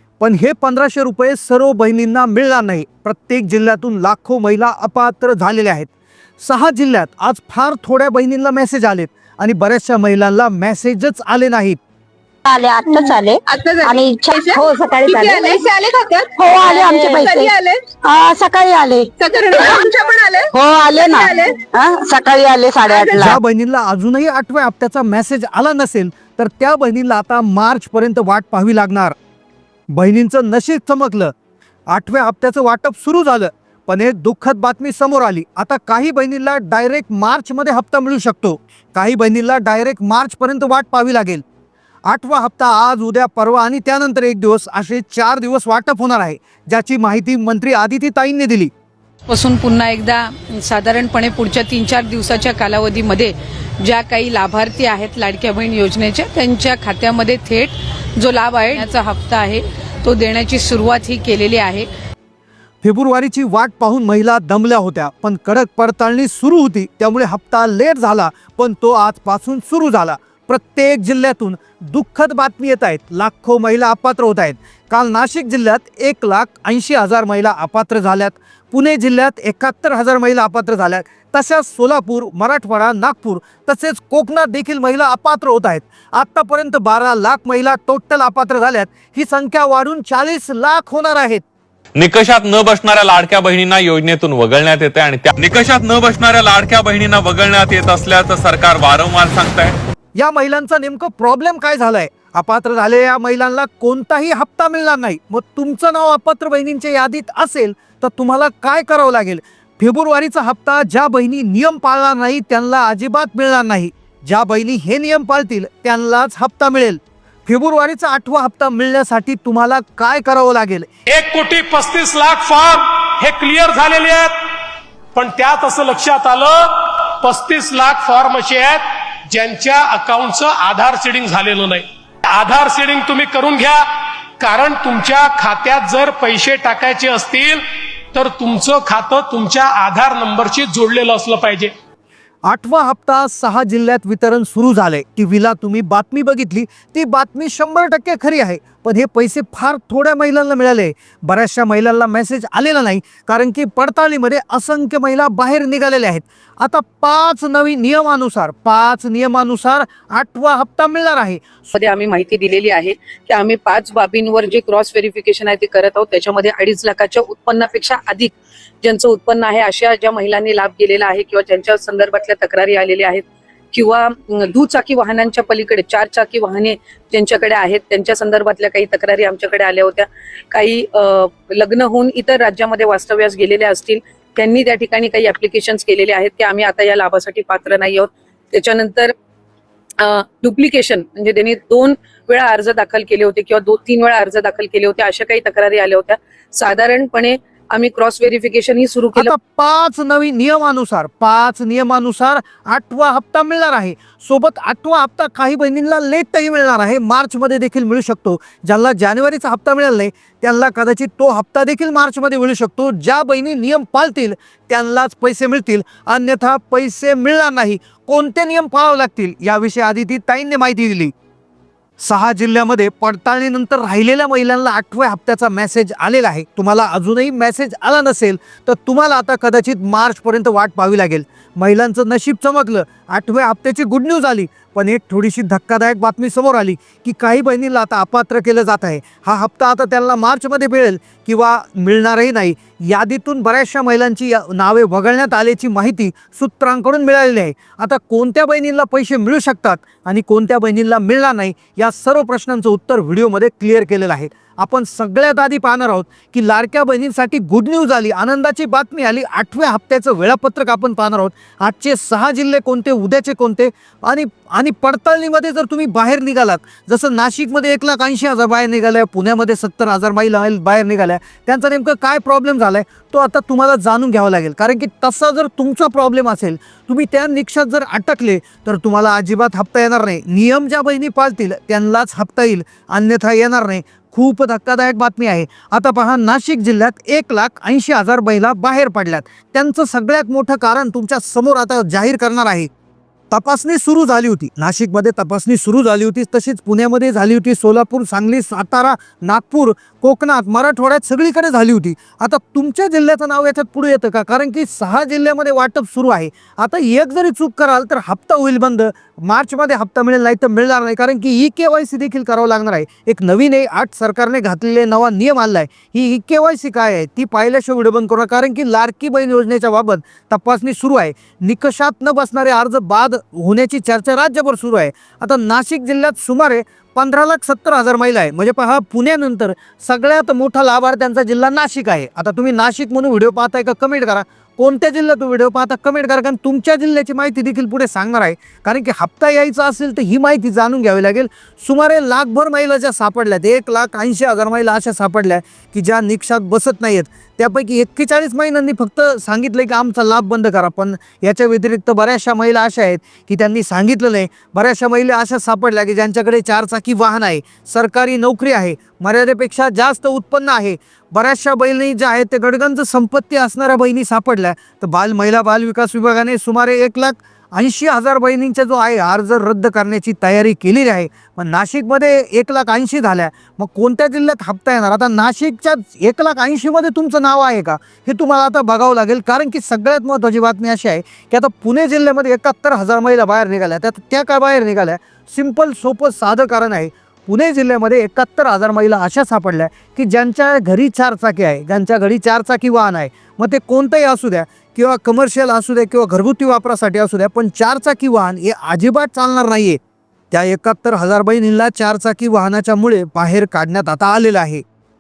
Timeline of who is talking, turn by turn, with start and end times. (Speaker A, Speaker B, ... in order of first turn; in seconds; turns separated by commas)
Speaker A: 0.2-11.8, Speaker B: 12.5-15.7, Speaker C: 12.9-17.8, Speaker B: 16.4-17.5, Speaker B: 18.0-19.1, Speaker C: 19.2-21.6, Speaker B: 20.5-23.4, Speaker C: 22.8-23.3, Speaker A: 23.1-29.1, Speaker A: 29.9-31.3, Speaker A: 31.9-41.4, Speaker A: 42.1-48.7, Speaker D: 49.3-61.9, Speaker A: 62.8-91.4, Speaker E: 92.0-99.8, Speaker A: 100.2-120.9, Speaker F: 121.1-124.3, Speaker F: 125.1-133.8, Speaker F: 134.4-137.6, Speaker F: 138.1-141.7, Speaker A: 142.4-161.7, Speaker D: 161.7-189.1, Speaker D: 190.0-199.3, Speaker A: 199.1-221.1, Speaker A: 222.0-292.7, Speaker A: 293.3-399.8, Speaker A: 400.3-404.6